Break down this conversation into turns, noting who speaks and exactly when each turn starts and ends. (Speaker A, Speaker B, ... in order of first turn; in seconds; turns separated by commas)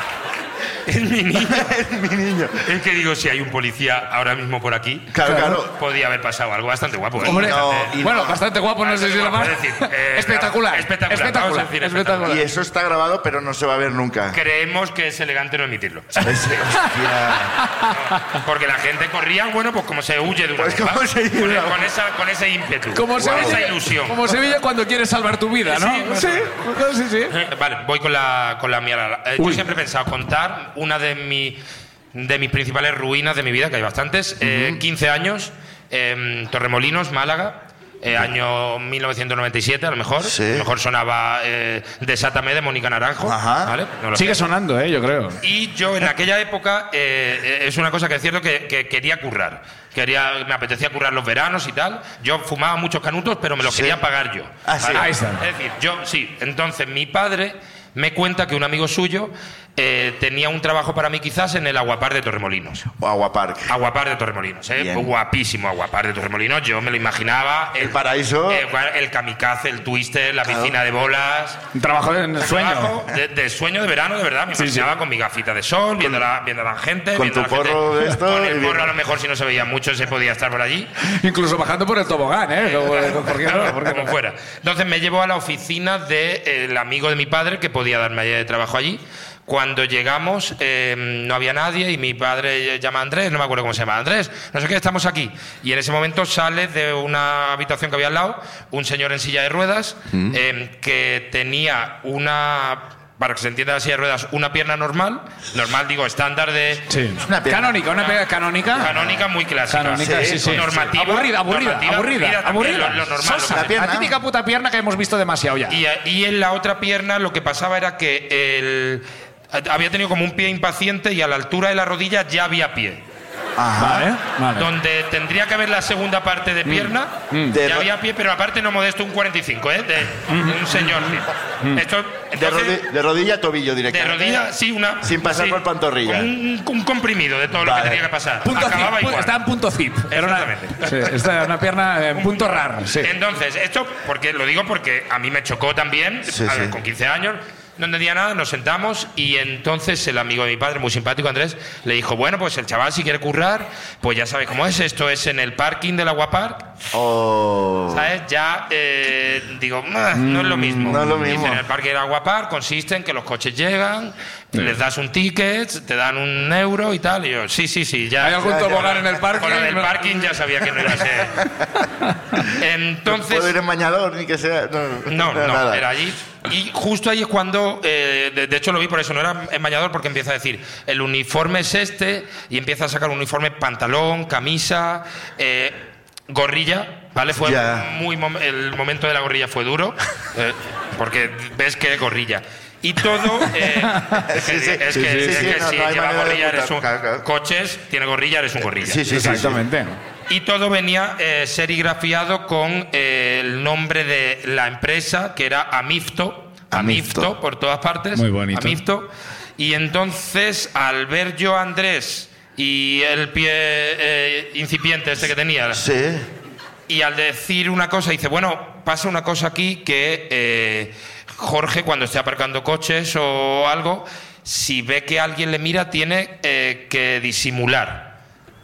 Speaker A: 0.8-1.7, Speaker B: 1.4-2.6, Speaker A: 2.6-8.1, Speaker B: 5.1-5.8, Speaker C: 5.2-5.6, Speaker B: 7.2-8.4, Speaker C: 7.2-12.5, Speaker A: 8.8-12.4, Speaker B: 12.2-14.4, Speaker A: 14.3-16.3, Speaker B: 16.2-17.6, Speaker C: 16.8-17.9, Speaker A: 17.9-24.3, Speaker B: 20.5-21.9, Speaker C: 22.9-27.4, Speaker B: 23.2-23.6, Speaker A: 25.6-26.6, Speaker A: 27.3-31.6, Speaker C: 29.4-29.6, Speaker A: 32.1-44.4, Speaker B: 34.4-34.8, Speaker B: 40.2-40.7, Speaker B: 43.2-43.7, Speaker C: 44.1-45.4, Speaker A: 45.4-62.9, Speaker B: 53.6-54.0, Speaker B: 54.6-55.1, Speaker C: 54.9-55.4, Speaker B: 63.0-63.7, Speaker A: 63.7-68.0, Speaker B: 64.7-65.1, Speaker B: 67.8-68.6, Speaker A: 68.5-71.6, Speaker B: 70.4-70.8, Speaker C: 71.7-72.9, Speaker A: 72.4-80.9, Speaker C: 74.5-74.9, Speaker B: 77.1-79.0, Speaker C: 81.0-84.1, Speaker A: 82.6-106.9, Speaker B: 100.1-100.4, Speaker C: 106.9-108.9, Speaker B: 107.2-107.8, Speaker A: 107.9-108.2, Speaker A: 108.7-113.8, Speaker B: 108.8-109.2, Speaker C: 109.7-115.8, Speaker B: 110.0-110.9, Speaker B: 113.5-114.1, Speaker A: 115.7-123.0, Speaker B: 123.6-124.1, Speaker C: 123.8-124.7, Speaker A: 124.5-132.8, Speaker C: 126.7-127.6, Speaker B: 127.5-127.9, Speaker C: 130.3-130.8, Speaker B: 132.3-136.3, Speaker A: 133.9-139.4, Speaker B: 137.6-138.1, Speaker C: 138.4-143.1, Speaker A: 140.1-141.1, Speaker A: 142.1-156.7, Speaker B: 146.3-146.8, Speaker B: 156.9-158.1, Speaker A: 157.9-171.5, Speaker C: 160.2-161.1, Speaker B: 160.2-161.7, Speaker C: 168.2-170.2, Speaker B: 168.4-169.0, Speaker C: 172.1-172.4, Speaker A: 172.4-173.5, Speaker B: 173.1-175.9, Speaker A: 175.1-199.1, Speaker B: 187.4-187.9, Speaker B: 194.2-197.2, Speaker C: 194.9-195.5, Speaker B: 198.8-199.6, Speaker C: 199.1-200.0, Speaker A: 200.3-215.8, Speaker B: 206.7-207.3, Speaker C: 208.1-208.8, Speaker B: 215.7-216.3, Speaker A: 216.9-228.1